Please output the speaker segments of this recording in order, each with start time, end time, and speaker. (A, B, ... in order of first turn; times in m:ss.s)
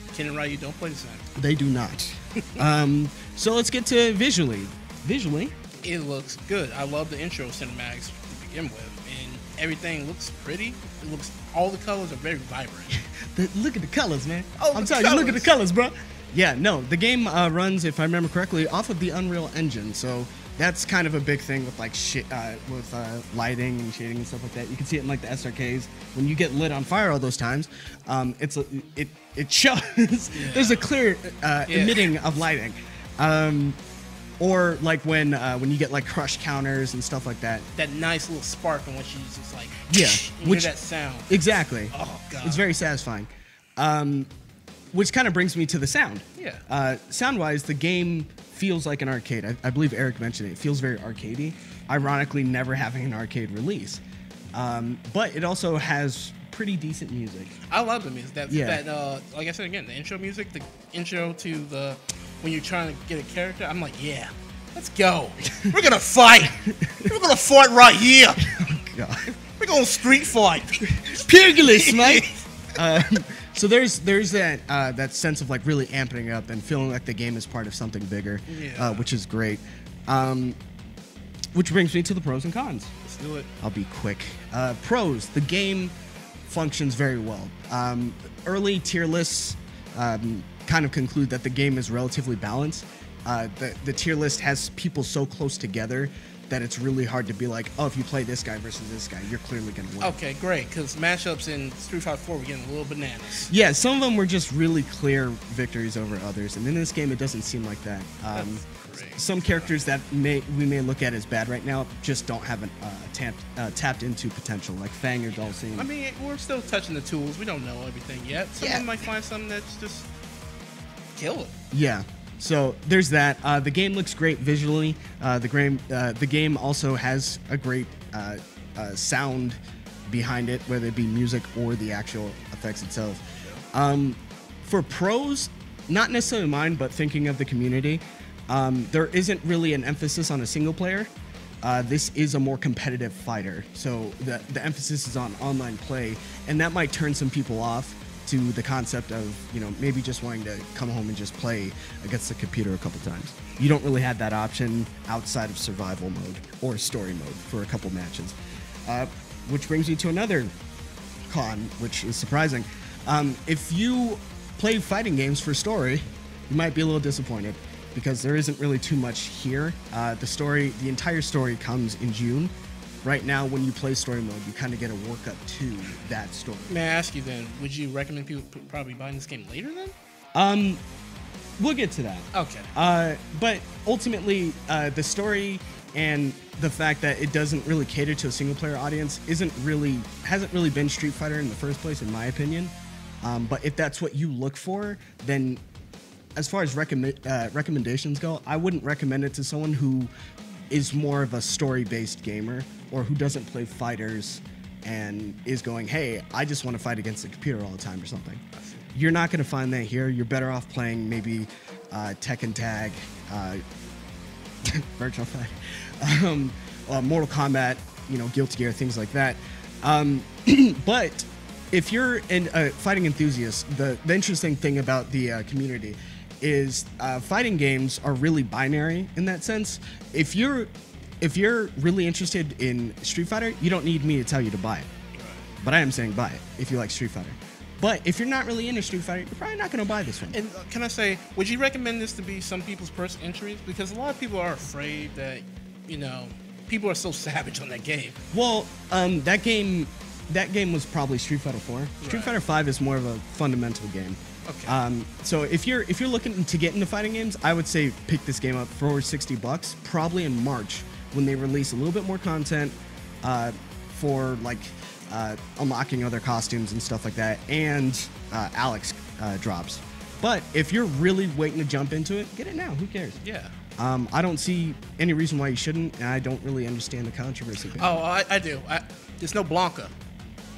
0:00.1-0:01.2 A
0:01.3-0:05.5 B
0:05.8-0:12.9 A
0:12.9-0:33.8 B
0:14.6-0:15.5 A
0:30.3-0:30.8 A
0:31.7-0:32.1 A
0:34.4-0:37.6 B
0:37.7-0:42.7 A
0:39.9-0:40.7 B
0:41.3-0:44.3 B
0:44.9-0:54.0 B
0:46.4-0:46.6 A
0:54.5-0:57.6 B
0:57.7-1:08.4 A
0:58.5-0:58.8 B
1:08.4-1:09.3 B
1:09.6-1:12.4 A
1:10.9-1:20.6 B
1:18.5-1:19.1 A
1:21.5-1:22.9 B
1:23.0-1:23.5 A
1:23.6-1:25.9 B
1:26.5-1:40.2 B
1:40.0-1:43.5 A
1:43.5-1:55.9 B
1:48.3-1:49.7 A
1:55.6-2:00.1 A
1:58.6-1:58.9 B
2:01.1-2:01.5 A
2:01.7-2:21.1 B
2:21.6-2:40.5 B
2:41.3-2:52.5 B
2:53.0-2:56.8 B
2:56.7-2:59.9 A
3:00.3-3:00.8 B
3:01.6-3:15.6 B
3:02.3-3:02.7 A
3:16.4-3:20.1 B
3:20.7-3:28.4 B
3:28.6-3:28.8 A
3:28.9-3:33.6 B
3:34.6-3:50.7 B
3:51.2-3:54.9 B
3:55.2-3:55.5 A
3:55.6-4:00.4 B
4:00.3-4:08.2 A
4:08.3-4:33.2 B
4:12.0-4:12.3 A
4:14.4-4:14.8 A
4:33.2-4:33.5 A
4:33.8-4:38.0 B
4:37.8-4:39.9 A